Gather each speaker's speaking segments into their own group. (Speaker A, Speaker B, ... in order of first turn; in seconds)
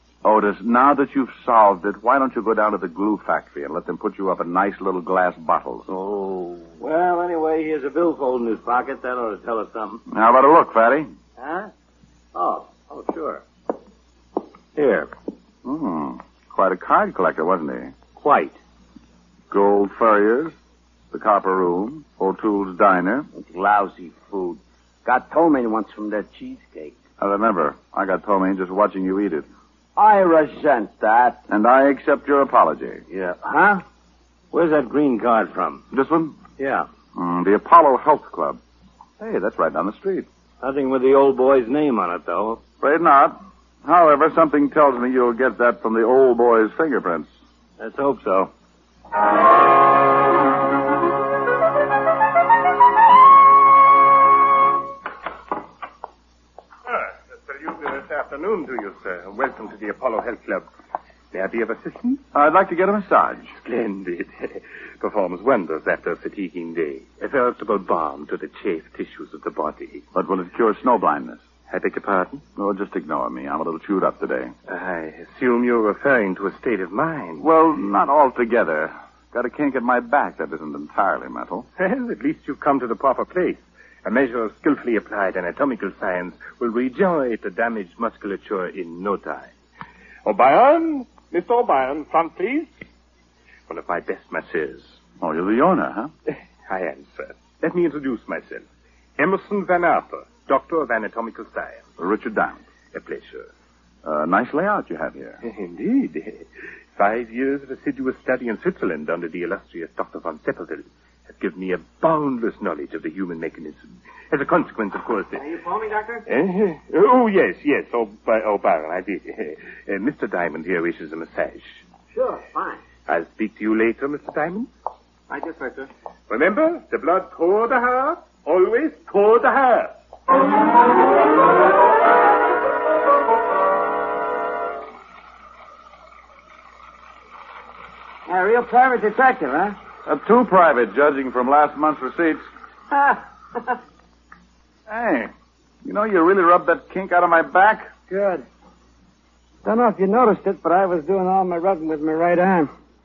Speaker A: 0.2-5.9, 10.1-11.1, 15.7-17.9, 19.5-20.6, 21.1-23.3, 27.2-29.5, 31.5-33.0, 35.9-36.4, 37.2-38.6, 39.2-40.3, 42.8-47.3, 62.3-63.5, 70.1-71.4, 72.6-74.5, 77.4-81.7, 95.2-96.1, 102.0-102.6, 104.0-105.4, 140.1-142.4, 144.9-145.3, 145.8-147.9
Speaker B: 5.9-10.0, 11.4-11.7, 12.3-13.4, 14.8-15.1, 18.2-18.6, 34.5-35.9, 36.6-36.9, 40.6-42.6, 47.8-48.5
Speaker C: 23.4-27.0, 30.0-31.4, 33.1-33.8, 115.4-116.2, 122.1-122.8, 125.3-125.9, 138.3-139.8, 142.9-143.8, 148.1-148.4, 149.7-152.7
Speaker D: 56.9-60.7, 61.3-62.2, 63.5-70.1, 71.7-72.4, 74.7-77.5, 81.8-89.5, 90.2-92.7, 93.7-95.0, 96.3-98.7, 99.2-101.9, 102.9-103.5, 105.4-115.5, 116.3-121.8, 123.1-124.7, 126.3-129.9